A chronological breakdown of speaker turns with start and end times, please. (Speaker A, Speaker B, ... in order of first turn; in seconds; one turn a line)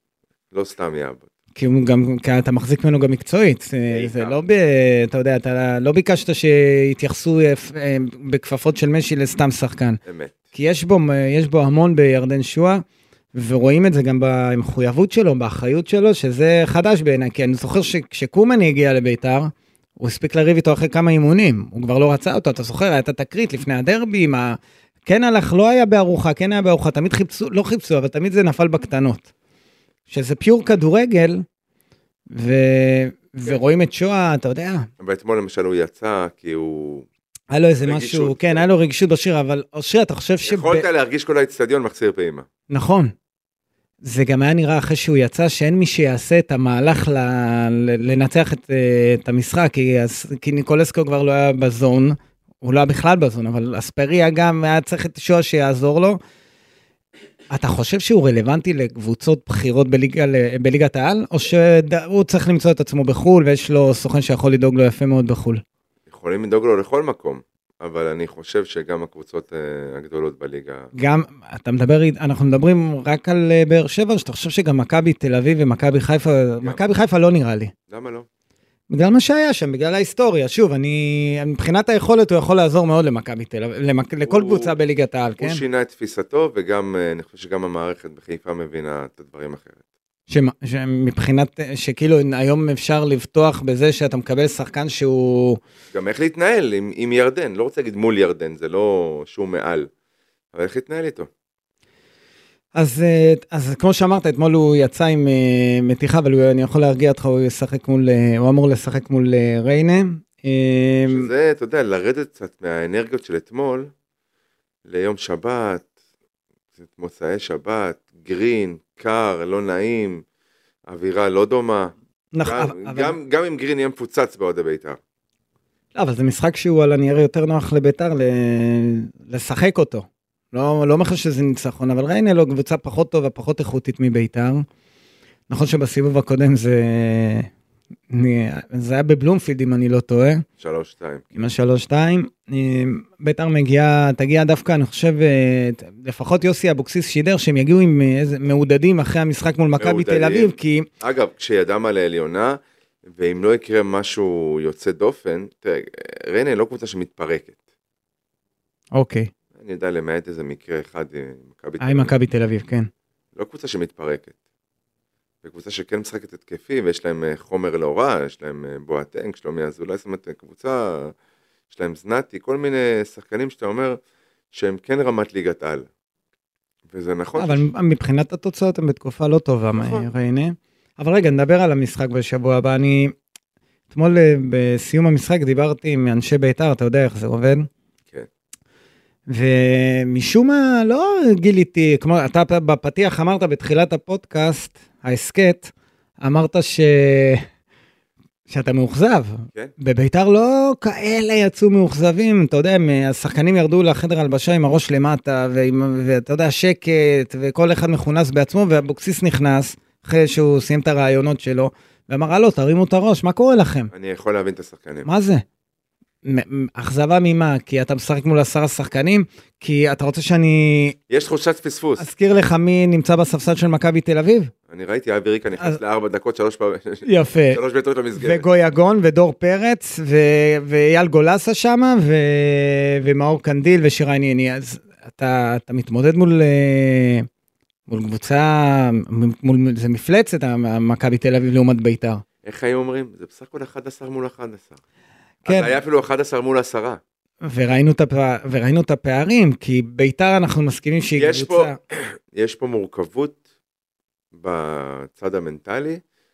Speaker A: 0.5-1.3
Speaker B: 1.6-10.0
Speaker A: 3.9-4.4
Speaker A: 10.1-10.4
Speaker B: 10.5-29.3
Speaker B: 30.1-31.4
Speaker B: 32.3-34.9
Speaker A: 35.0-37.1
Speaker B: 37.5-40.9
Speaker A: 37.8-38.7
Speaker A: 40.5-42.5
Speaker B: 42.7-43.1
Speaker B: 44.0-56.2
Speaker B: 57.5-65.6
Speaker A: 66.1-70.9
Speaker B: 71.0-77.7
Speaker A: 77.9-78.3
Speaker B: 78.9-85.6
Speaker A: 84.2-84.8
Speaker A: 85.4-89.8
Speaker B: 90.3-95.6
Speaker A: 95.9-99.9
Speaker A: 100.5-101.3
Speaker B: 102.8-111.3
Speaker A: 111.1-113.9
Speaker A: 114.9-115.9
Speaker A: 116.8-120.2
Speaker A: 120.9-125.0
Speaker B: 122.3-123.2
Speaker B: 126.0-134.7
Speaker B: 135.5-137.5
Speaker B: 138.1-140.4
Speaker A: 140.6-141.2
Speaker B: 141.3-150.9
Speaker A: 149.8-157.6
Speaker B: 158.9-159.3
Speaker A: 159.6-162.1
Speaker B: 161.8-162.9
Speaker A: 163.3-164.3
Speaker A: 165.4-171.1
Speaker A: 171.7-174.0
Speaker A: 174.5-175.9
Speaker A: 176.9-177.7
Speaker B: 177.4-183.1
Speaker A: 179.7-180.1
Speaker B: 183.9-187.7
Speaker B: 189.3-197.5
Speaker B: 198.5-213.9
Speaker A: 213.9-215.1
Speaker B: 215.1-215.4
Speaker B: 216.2-221.0
Speaker A: 221.1-222.1
Speaker B: 222.0-224.5
Speaker A: 224.7-228.4
Speaker B: 227.1-227.6
Speaker B: 228.2-237.3
Speaker B: 237.9-242.2
Speaker A: 242.4-244.8
Speaker B: 245.4-245.7
Speaker A: 245.4-247.0
Speaker B: 247.4-251.8
Speaker A: 251.2-253.4
Speaker A: 254.3-256.0